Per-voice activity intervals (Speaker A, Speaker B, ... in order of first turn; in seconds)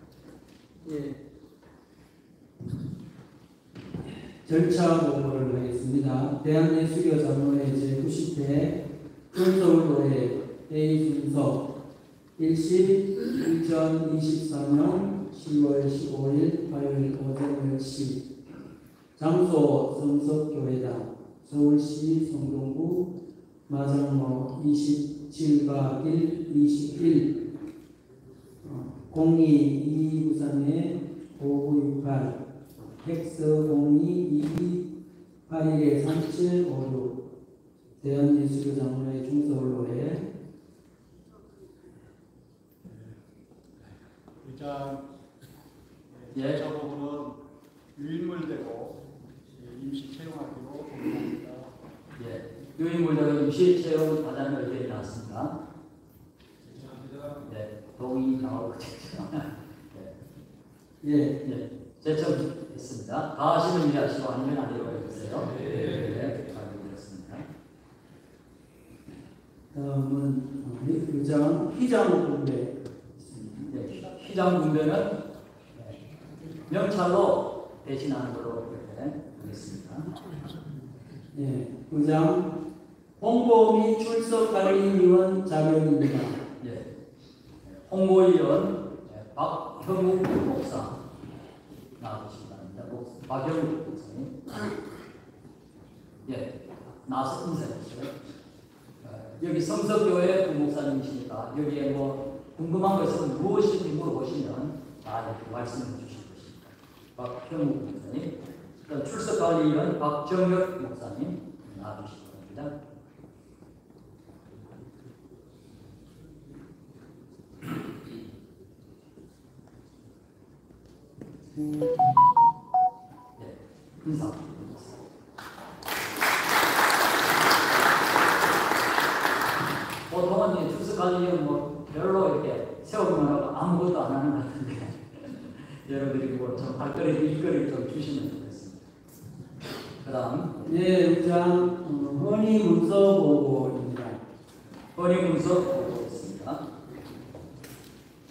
Speaker A: 0.8-1.1, 4.5-8.8, 9.3-11.6, 12.4-18.2, 19.2-23.1, 23.7-27.4, 28.6-32.4, 33.0-34.8, 35.5-37.1, 38.0-40.2, 61.0-61.3, 69.7-72.7, 81.3-82.4, 83.2-86.4, 140.6-144.2
Speaker B: 44.4-45.0, 46.1-47.4, 48.0-49.0, 49.5-51.7, 56.6-57.4
Speaker C: 46.3-46.6, 52.2-55.5, 57.4-60.1, 61.4-67.4, 73.5-75.1, 76.7-80.1, 86.6-86.8, 87.6-91.0, 92.0-94.5, 96.2-98.1, 99.0-108.3, 108.9-112.7, 123.4-125.0, 130.1-138.8, 140.0-140.5, 144.9-146.6